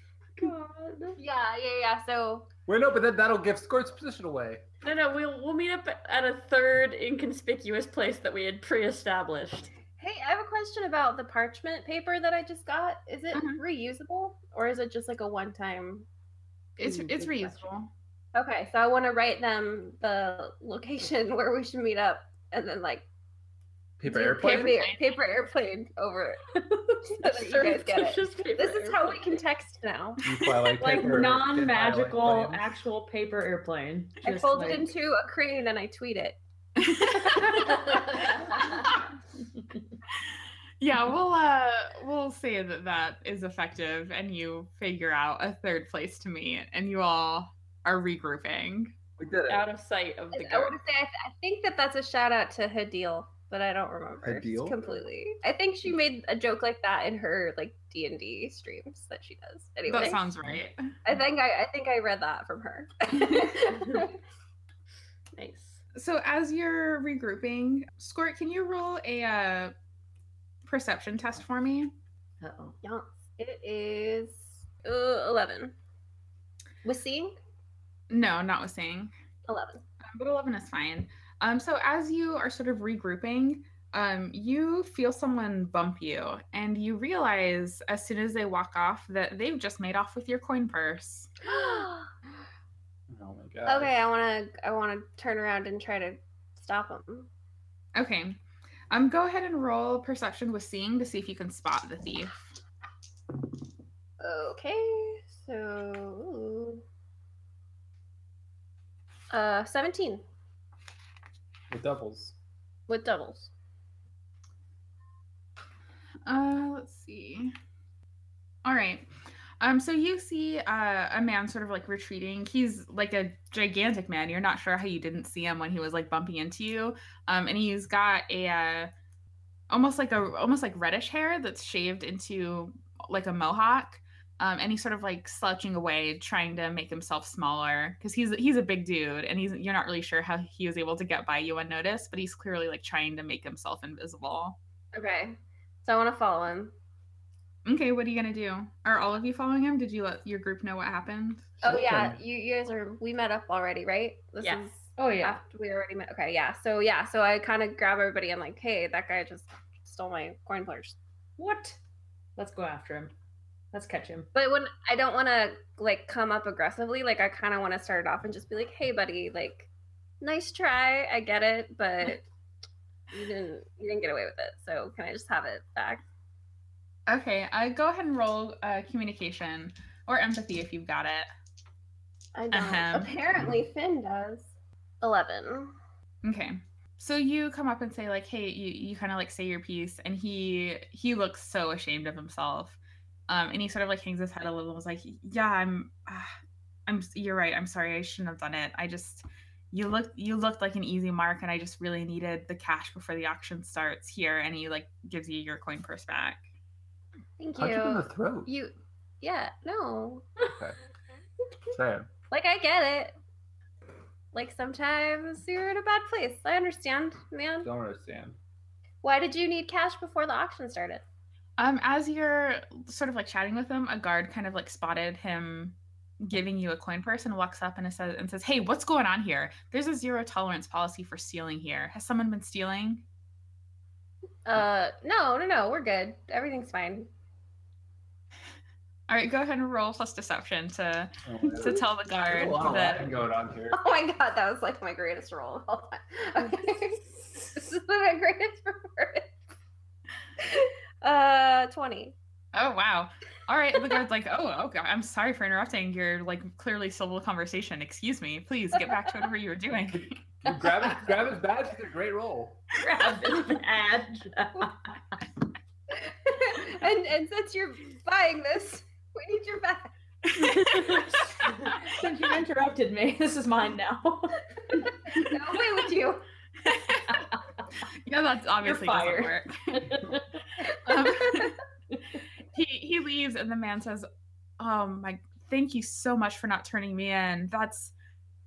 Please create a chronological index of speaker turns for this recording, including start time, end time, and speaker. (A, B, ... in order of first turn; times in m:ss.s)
0:00.4-0:01.2 A
0:01.2-0:02.4 B
0:02.7-0:04.6 C
0:04.8-0:09.7 A
0:10.0-0:16.0 B
0:13.3-0:13.6 D
0:16.8-0:17.9 D
0:17.2-0:17.5 B
0:18.3-0:23.0 B
0:24.0-0:24.8 C
0:24.0-0:26.5 B
0:24.4-0:25.2 D
0:27.0-0:30.2 B
0:27.3-0:29.3 A
0:30.2-0:32.7 C
0:30.8-0:34.9 E
0:34.2-0:36.4 B
0:36.8-0:37.9 D
0:37.5-0:38.9 B
0:40.8-0:48.9 D
0:49.2-0:49.6 C
0:49.5-0:50.8 A
0:50.3-1:00.2 B
0:54.2-0:54.8 C
0:59.8-1:00.9 D
1:01.0-1:04.1 B
1:03.2-1:03.4 D
1:05.4-1:05.8 A
1:05.9-1:09.7 D
1:10.6-1:11.9 D
1:12.4-1:12.8 E
1:12.8-1:15.7 B
1:16.8-1:17.4 B
1:18.1-1:19.1 D
1:19.5-1:19.8 B
1:20.0-1:31.4 D
1:31.4-1:32.1 B
1:33.1-1:33.9 C
1:33.6-1:37.3 B
1:37.9-1:38.4 D
1:38.9-1:42.4 D
1:44.2-1:46.8 B
1:49.3-1:50.2 B
1:51.7-1:52.3 C
1:52.9-1:53.5 B
1:56.3-1:57.5 D
1:58.6-1:59.1 D
1:59.6-2:08.9 D
2:09.7-2:24.6 D
2:24.9-2:26.7 B
2:27.6-2:31.5 D
2:31.6-2:41.0 B
2:31.6-2:32.2 C
2:34.4-2:34.6 A
2:35.0-2:35.4 E
2:41.4-2:41.8 E
2:42.4-2:43.1 E
2:43.7-2:44.3 E
2:44.3-2:49.7 B
2:50.2-2:52.2 B
2:53.1-2:56.0 B
2:57.1-3:01.3 D
3:02.3-3:04.5 B
3:02.5-3:03.1 D
3:05.0-3:05.7 B
3:06.2-3:12.8 D
3:13.3-3:16.3 D
3:16.9-3:26.4 D
3:27.4-3:30.2 B
3:27.6-3:28.5 C
3:31.7-3:32.1 C
3:32.3-3:33.1 B
3:34.3-3:37.7 B
3:37.6-3:38.4 C
3:39.0-3:41.0 B
3:41.6-3:53.0 D
3:54.4-3:57.1 B
3:59.1-4:03.1 D
4:01.2-4:03.8 C
4:03.7-4:09.3 B
4:07.0-4:07.5 E
4:10.4-4:12.1 B
4:12.5-4:20.2 D
4:20.4-4:22.6 C
4:22.7-4:25.0 E
4:25.9-4:29.9 B
4:30.3-4:31.2 D
4:30.6-4:31.1 E
4:31.7-4:34.9 E
4:35.1-4:36.2 B
4:36.6-4:37.2 D
4:37.1-4:37.4 E
4:37.9-4:39.8 D
4:38.6-4:40.4 E
4:40.8-4:41.6 D
4:41.0-4:41.5 B
4:42.5-4:44.1 D
4:44.6-4:47.9 D